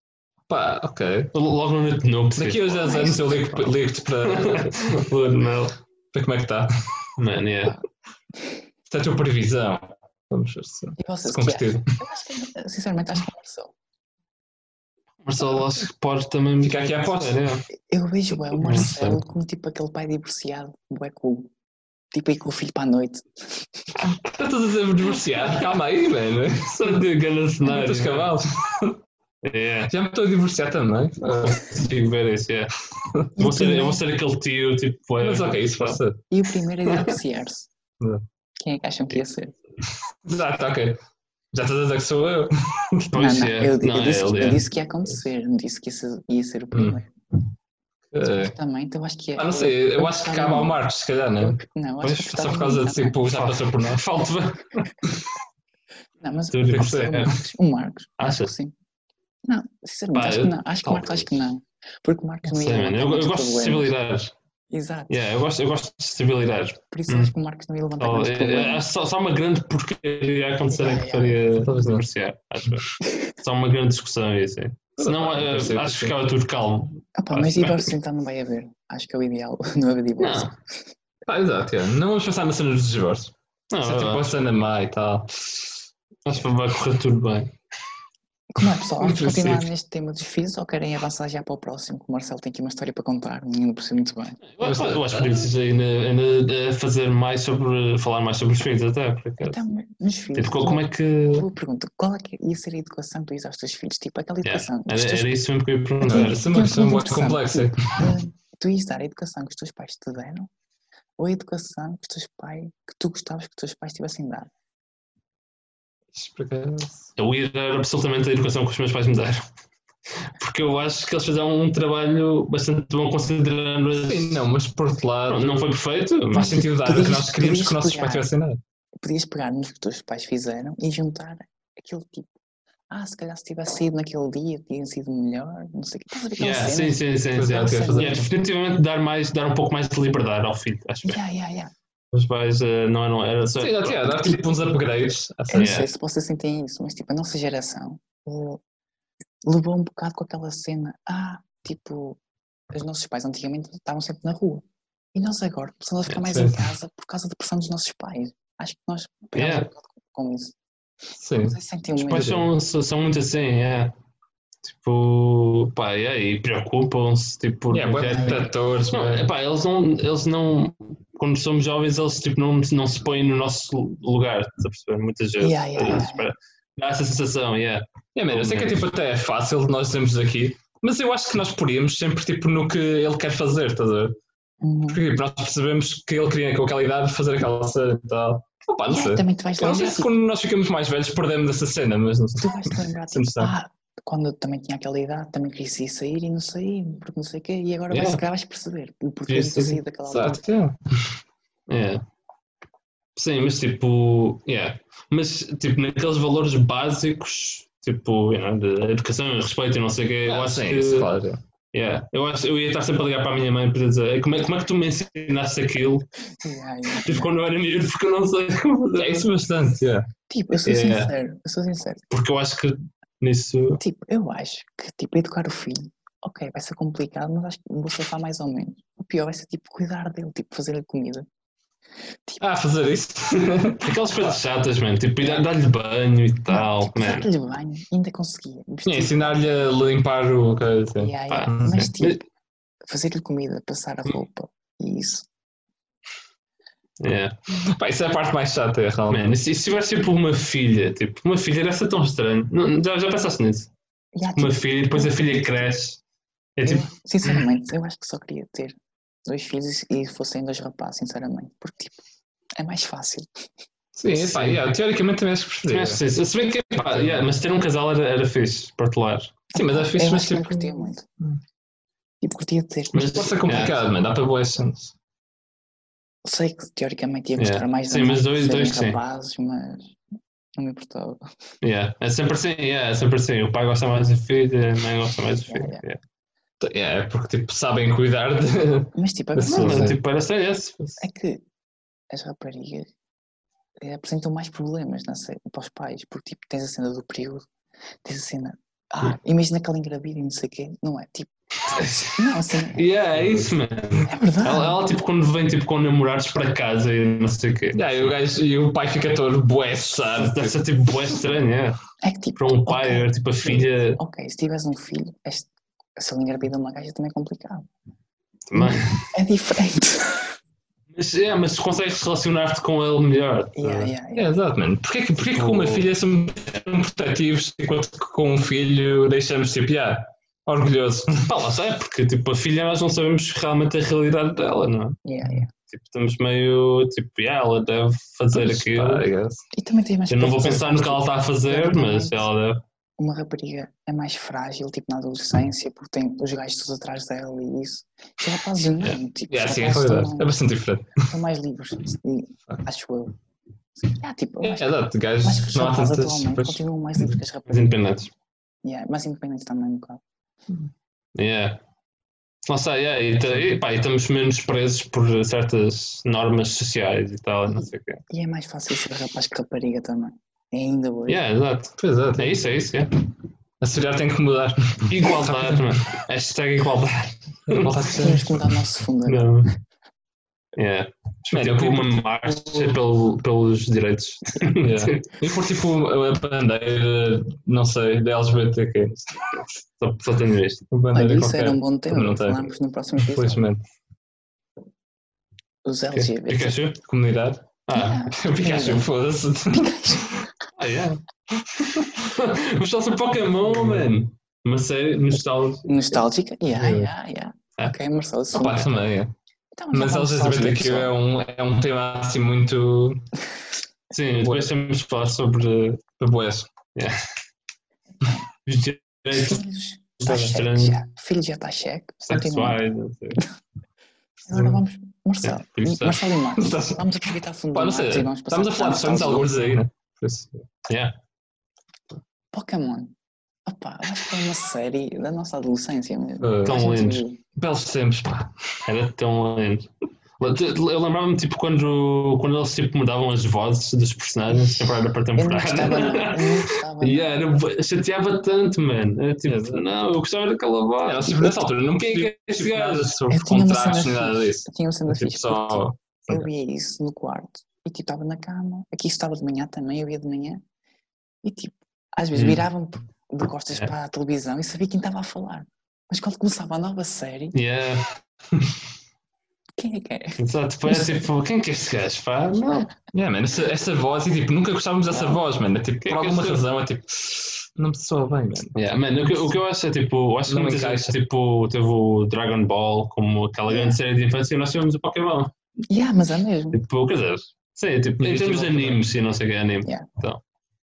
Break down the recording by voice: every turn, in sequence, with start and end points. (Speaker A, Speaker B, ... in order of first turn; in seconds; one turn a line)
Speaker A: 0.5-1.3
Speaker B: 1.3-3.6
Speaker A: 2.4-4.9
Speaker C: 2.8-3.6
Speaker B: 4.2-5.8
Speaker A: 6.1-7.1
Speaker B: 7.2-7.8
Speaker A: 8.9-11.9
Speaker C: 11.0-13.8
Speaker B: 15.2-17.6
Speaker A: 16.6-17.6
Speaker C: 17.9-21.5
Speaker B: 18.6-19.2
Speaker C: 22.1-23.9
Speaker A: 24.0-27.0
Speaker B: 26.6-28.4
Speaker A: 27.6-29.0
Speaker B: 29.4-29.9
Speaker A: 29.9-31.7
Speaker B: 31.4-32.7
Speaker B: 33.4-36.0
Speaker C: 33.4-34.0
Speaker A: 35.2-36.2
Speaker C: 36.3-37.7
Speaker B: 36.9-37.2
Speaker C: 38.6-39.6
Speaker A: 40.1-41.0
Speaker A: 41.5-43.2
Speaker B: 43.1-44.7
Speaker C: 43.1-47.1
Speaker A: 46.7-47.0
Speaker A: 48.1-48.5
Speaker C: 48.2-50.8
Speaker A: 49.4-54.0
Speaker C: 51.4-53.2
Speaker B: 53.3-55.1
Speaker C: 56.2-58.8
Speaker B: 56.5-57.3
Speaker A: 56.7-57.4
Speaker B: 58.2-58.5
Speaker C: 59.5-63.9
Speaker B: 60.1-60.6
Speaker B: 62.5-64.3
Speaker C: 64.7-65.2
Speaker B: 65.1-67.3
Speaker C: 66.9-68.8
Speaker B: 68.0-77.9
Speaker C: 70.7-71.6
Speaker A: 71.6-72.0
Speaker C: 73.0-73.3
Speaker A: 75.0-76.2
Speaker C: 77.2-80.6
Speaker B: 80.2-80.5
Speaker A: 81.3-85.7
Speaker B: 83.7-84.3
Speaker B: 86.2-87.5
Speaker C: 88.5-94.4
Speaker B: 89.0-89.6
Speaker A: 89.1-89.5
Speaker B: 94.5-99.6
Speaker A: 94.6-95.5
Speaker C: 99.4-105.3
Speaker B: 100.3-101.5
Speaker B: 104.4-106.5
Speaker A: 106.0-108.1
Speaker C: 106.0-110.5
Speaker C: 111.2-114.5
Speaker A: 116.1-117.1
Speaker B: 117.2-119.5
Speaker B: 120.4-124.5
Speaker A: 124.0-125.5
Speaker B: 125.3-126.6
Speaker A: 126.3-128.6
Speaker C: 126.3-128.3
Speaker C: 129.0-132.3
Speaker C: 132.9-138.3
Speaker B: 136.4-141.2
Speaker A: 137.3-138.3
Speaker C: 141.0-141.7
Speaker B: 142.1-144.3
Speaker A: 143.6-145.8
Speaker C: 145.5-148.6
Speaker B: 145.6-145.9
Speaker C: 149.4-152.2
Speaker C: 152.7-154.6
Speaker C: 155.2-160.6
Speaker A: 156.2-156.7
Speaker B: 159.4-159.7
Speaker A: 161.2-161.6
Speaker C: 161.4-162.5
Speaker B: 162.0-163.9
Speaker B: 164.7-178.9
Speaker A: 167.7-169.3
Speaker C: 168.1-168.5
Speaker C: 175.4-176.3
Speaker A: 178.2-184.2
Speaker C: 184.6-185.0
Speaker A: 184.9-193.5
Speaker C: 188.9-190.1
Speaker C: 192.4-200.4
Speaker B: 197.9-198.2
Speaker B: 199.3-199.8
Speaker A: 200.1-200.8
Speaker B: 201.7-202.0
Speaker B: 203.2-211.1
Speaker A: 210.3-211.4
Speaker B: 211.7-216.1
Speaker C: 216.4-217.3
Speaker B: 217.0-219.3
Speaker A: 218.9-220.1
Speaker C: 220.3-222.0
Speaker B: 220.7-221.1
Speaker B: 222.1-223.8
Speaker C: 223.8-231.3
Speaker A: 232.4-234.4
Speaker B: 233.8-237.3
Speaker C: 235.2-235.5
Speaker C: 236.5-239.5
Speaker A: 238.8-241.9
Speaker C: 241.0-242.2
Speaker B: 241.3-242.2
Speaker C: 242.9-245.3
Speaker B: 247.0-247.4
Speaker A: 247.5-249.3
Speaker B: 249.1-253.7
Speaker C: 254.2-255.7
Speaker B: 254.4-256.0
Speaker B: 256.6-257.4
Speaker C: 256.6-262.0
Speaker C: 262.6-263.3
Speaker A: 263.9-266.0
Speaker B: 264.2-264.6
Speaker B: 265.7-269.4
Speaker A: 266.8-267.3
Speaker C: 269.5-271.1
Speaker A: 269.6-271.4
Speaker C: 272.2-273.8
Speaker B: 272.9-273.8
Speaker A: 273.1-274.9
Speaker C: 276.2-280.0
Speaker B: 277.4-279.0
Speaker C: 280.6-281.2
Speaker B: 281.6-286.0
Speaker C: 285.5-285.8
Speaker A: 286.6-290.0
Speaker C: 288.9-290.0
Speaker B: 289.5-291.0
Speaker C: 291.0-291.4
Speaker C: 292.1-292.9
Speaker C: 293.8-297.5
Speaker C: 298.0-302.9
Speaker B: 301.9-302.1
Speaker B: 302.7-307.8
Speaker A: 303.1-303.5
Speaker C: 304.1-304.8
Speaker A: 307.8-310.6
Speaker B: 310.2-311.8
Speaker C: 312.0-317.7
Speaker B: 312.4-314.0
Speaker B: 318.5-319.1
Speaker C: 318.5-320.4
Speaker B: 320.9-323.9
Speaker C: 323.6-324.3
Speaker A: 324.1-331.3
Speaker B: 325.2-325.9
Speaker B: 331.3-335.0
Speaker C: 335.1-335.5
Speaker B: 335.7-339.1
Speaker A: 338.3-339.4
Speaker C: 339.5-342.3
Speaker B: 340.1-342.6
Speaker C: 343.0-350.4
Speaker A: 349.3-351.1
Speaker C: 351.0-353.1
Speaker C: 353.8-357.8
Speaker A: 354.4-357.1
Speaker B: 357.5-358.1
Speaker C: 358.6-360.0
Speaker B: 361.1-361.6
Speaker B: 362.5-368.0
Speaker C: 367.5-371.2
Speaker B: 371.1-373.0
Speaker A: 371.8-372.4
Speaker A: 373.6-375.9
Speaker B: 374.9-377.9
Speaker A: 377.5-378.4
Speaker C: 377.9-379.3
Speaker B: 379.1-379.5
Speaker B: 380.6-385.1
Speaker A: 381.3-382.8
Speaker A: 384.6-389.5
Speaker B: 389.8-390.7
Speaker A: 390.7-393.6
Speaker C: 390.9-393.5
Speaker C: 395.6-396.6
Speaker B: 395.9-396.8
Speaker A: 396.8-400.3
Speaker B: 397.7-398.1
Speaker C: 397.7-398.9
Speaker C: 399.5-400.3
Speaker B: 400.6-401.0
Speaker B: 401.6-406.0
Speaker A: 403.4-404.0
Speaker C: 405.7-408.8
Speaker A: 406.5-406.9
Speaker A: 408.3-409.1
Speaker C: 409.5-410.9
Speaker A: 409.7-413.1
Speaker B: 413.9-415.8
Speaker A: 414.2-414.5
Speaker A: 416.0-416.5
Speaker C: 418.0-418.2
Speaker B: 418.4-419.4
Speaker C: 419.1-422.6
Speaker B: 420.0-420.9
Speaker B: 422.1-423.2
Speaker C: 424.3-429.5
Speaker B: 425.2-426.1
Speaker A: 426.4-430.5
Speaker B: 430.7-430.9
Speaker C: 432.3-432.9
Speaker C: 433.5-437.2
Speaker A: 436.2-436.6
Speaker B: 436.4-437.0
Speaker A: 437.4-438.6
Speaker B: 438.7-453.1
Speaker C: 444.3-447.4
Speaker A: 449.3-449.6
Speaker A: 450.8-456.3
Speaker C: 451.1-451.4
Speaker C: 453.1-460.4
Speaker C: 461.2-467.4
Speaker B: 462.1-462.4
Speaker B: 467.3-468.5
Speaker C: 469.6-471.1
Speaker B: 470.2-472.7
Speaker A: 472.9-478.6
Speaker B: 475.8-476.4
Speaker B: 478.6-485.3
Speaker A: 480.3-481.0
Speaker C: 483.5-483.8
Speaker C: 485.7-486.6
Speaker B: 486.5-490.2
Speaker A: 488.0-488.9